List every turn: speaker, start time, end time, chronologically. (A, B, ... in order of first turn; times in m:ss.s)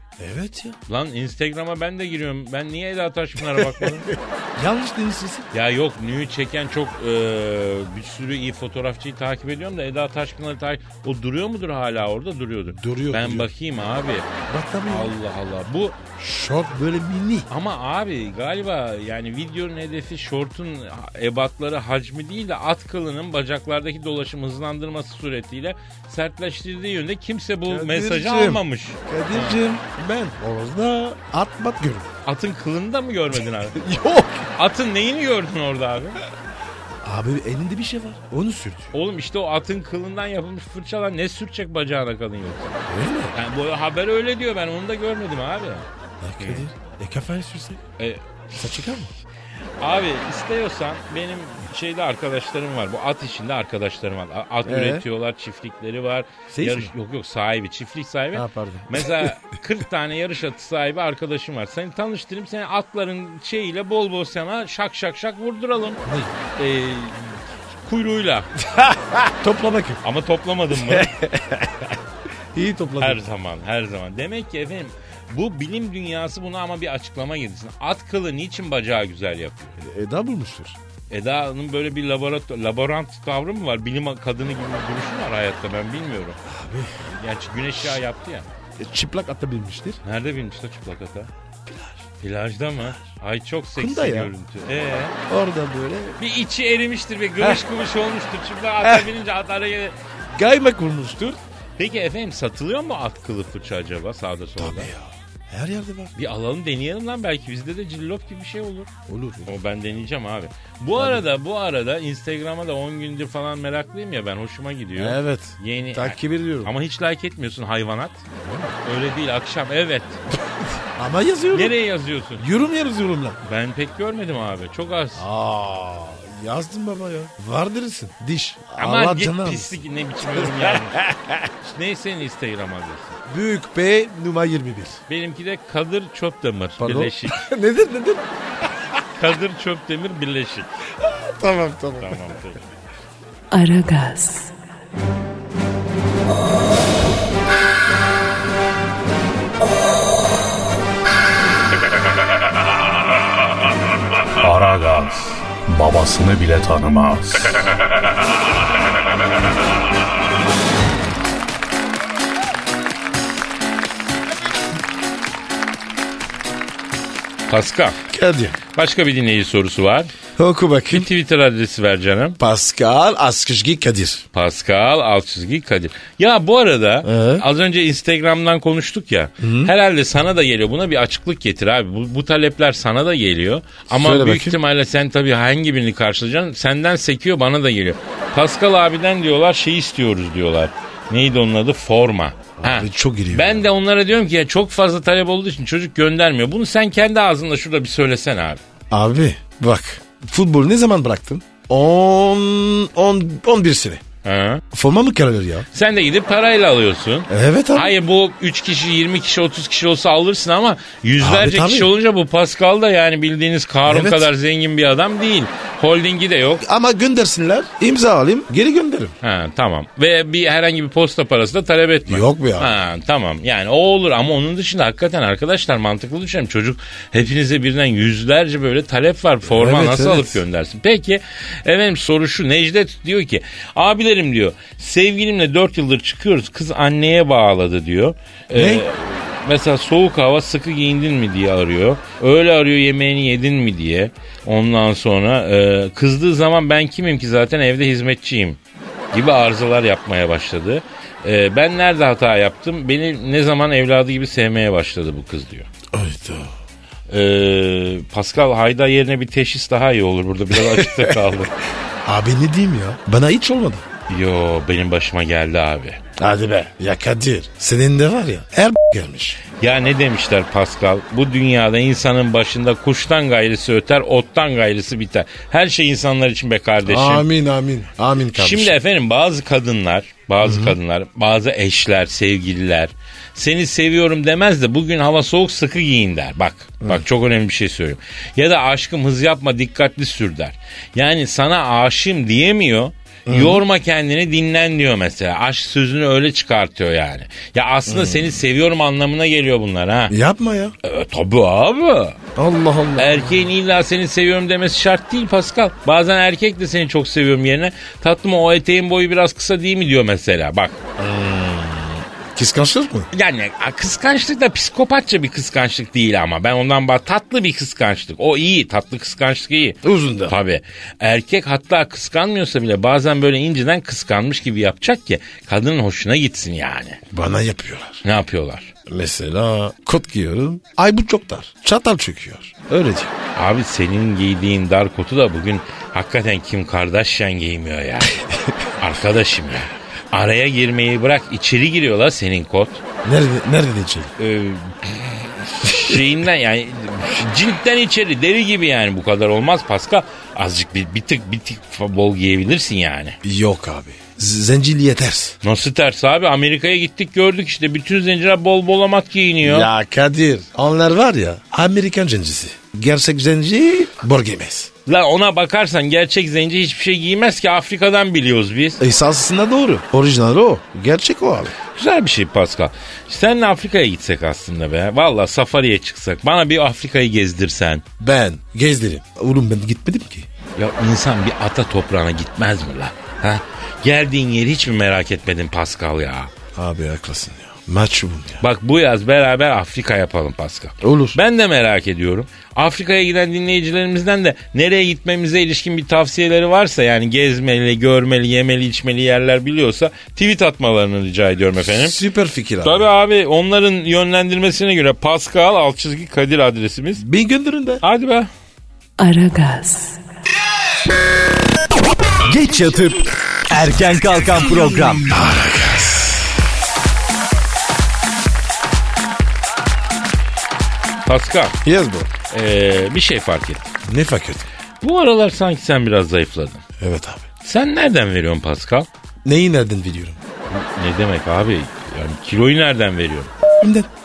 0:00.2-0:00.8 A
0:00.9-0:04.1 B
0:04.6-0:05.5 A
0:05.5-0:14.3 B
0:12.8-0:13.5 A
0:14.5-0:15.1 A
0:14.9-0:16.0 B
0:16.2-0:17.5 A
0:17.5-0:29.6 B
0:27.7-0:32.1 A
0:32.2-0:33.8 B
0:33.7-0:34.5 A
0:34.6-0:36.2 B
0:37.0-0:38.9 A
0:38.9-0:42.8 B
0:42.9-0:43.3 A
0:43.3-0:45.8 B
0:46.2-0:47.8 A
0:46.4-0:46.7 B
0:48.5-0:49.1 A
0:49.8-1:06.0 B
0:54.6-0:55.0 A
0:56.5-0:56.9 A
0:58.3-0:59.3 A
1:06.0-1:06.3 A
1:06.6-1:08.5 B
1:08.7-1:10.0 A
1:10.0-1:11.1 B
1:10.7-1:12.0 A
1:12.5-1:13.2 A
1:13.0-1:19.8 B
1:19.8-1:20.8 A
1:21.1-1:26.4 B
1:26.4-1:27.1 A
1:27.0-1:28.4 B
1:28.8-1:30.0 A
1:30.0-1:31.3 B
1:31.6-1:32.0 A
1:32.2-1:35.2 B
1:33.8-1:34.3 A
1:35.3-1:36.2 A
1:36.2-1:39.9 B
1:38.8-1:39.1 A
1:40.3-1:41.4 A
1:41.8-1:44.9 B
1:44.6-1:46.1 A
1:46.2-1:48.9 B
1:49.1-1:49.5 A
1:49.4-1:58.2 B
1:51.0-1:51.2 A
1:55.0-1:56.7 A
1:58.4-1:58.7 A
1:58.8-2:00.2 B
2:00.9-2:01.8 A
2:01.5-2:02.4 B
2:02.4-2:03.4 A
2:03.4-2:05.2 B
2:05.1-2:09.8 A
2:08.8-2:11.0 B
2:10.3-2:11.5 A
2:11.6-2:13.2 B
2:13.3-2:15.0 A
2:15.1-2:17.4 B
2:16.8-2:19.0 A
2:19.2-2:20.7 B
2:21.0-2:22.3 A
2:22.0-2:22.6 B
2:23.5-2:24.5 C
2:34.4-2:37.7 D
2:47.5-2:48.0 B
2:48.1-2:48.6 A
2:48.7-2:50.1 B
2:50.4-2:51.1 A
2:50.9-2:52.4 B
2:52.4-2:54.2 A
2:54.3-3:18.6 B
2:57.0-2:57.4 A
2:59.4-2:59.7 A
3:03.9-3:04.6 A
3:12.6-3:13.6 A
3:18.9-3:24.0 A
3:24.2-3:24.6 B
3:24.7-3:25.7 A
3:25.7-3:36.6 B
3:27.3-3:27.9 A
3:31.2-3:31.9 A
3:33.8-3:34.3 A
3:36.6-3:39.1 A
3:39.2-4:08.6 B
3:42.1-3:42.8 A
3:49.4-3:50.4 A
3:58.5-3:58.8 A
4:09.1-4:15.7 B
4:15.9-4:16.5 A
4:17.1-4:21.5 B
4:20.5-4:21.4 A
4:22.0-4:23.8 A
4:24.1-4:26.0 B
4:26.2-4:29.4 A
4:29.6-4:37.2 B
4:36.8-4:38.8 A
4:38.3-5:00.1 B
4:40.4-4:40.8 A
4:53.3-4:53.6 A
4:57.9-4:58.4 A
5:00.1-5:00.7 A
5:00.8-5:02.2 B
5:02.4-5:03.5 A
5:03.0-5:10.8 B
5:11.0-5:13.1 A
5:13.1-5:27.0 B
5:19.8-5:20.4 A
5:27.1-5:28.0 A
5:28.0-5:28.7 B
5:28.8-5:33.1 A
5:33.4-5:38.2 B
5:38.3-5:38.6 A
5:38.8-5:42.8 B
5:43.0-5:44.1 A
5:44.2-5:53.2 B
5:45.7-5:46.0 A
5:53.2-5:55.4 A
5:55.4-5:59.7 B
5:59.4-6:04.7 A
6:04.8-6:08.8 B
6:08.8-6:11.5 A
6:11.7-6:17.8 B
6:18.0-6:20.3 A
6:20.6-6:26.3 B
6:26.5-6:28.4 A
6:28.4-6:42.0 B
6:30.8-6:31.2 A
6:41.6-6:42.9 A
6:42.6-6:47.0 B
6:47.0-6:47.8 A
6:47.8-6:48.3 B
6:49.0-6:50.0 C
6:52.3-6:55.1 E
6:55.1-6:56.3 A
7:01.0-7:01.6 B
7:01.6-7:02.1 A
7:02.3-7:03.7 B
7:03.8-7:04.5 A
7:04.8-7:06.6 B
7:06.8-7:07.2 A
7:07.4-7:08.9 B
7:09.2-7:10.2 A
7:10.5-7:13.3 B
7:13.6-7:13.9 A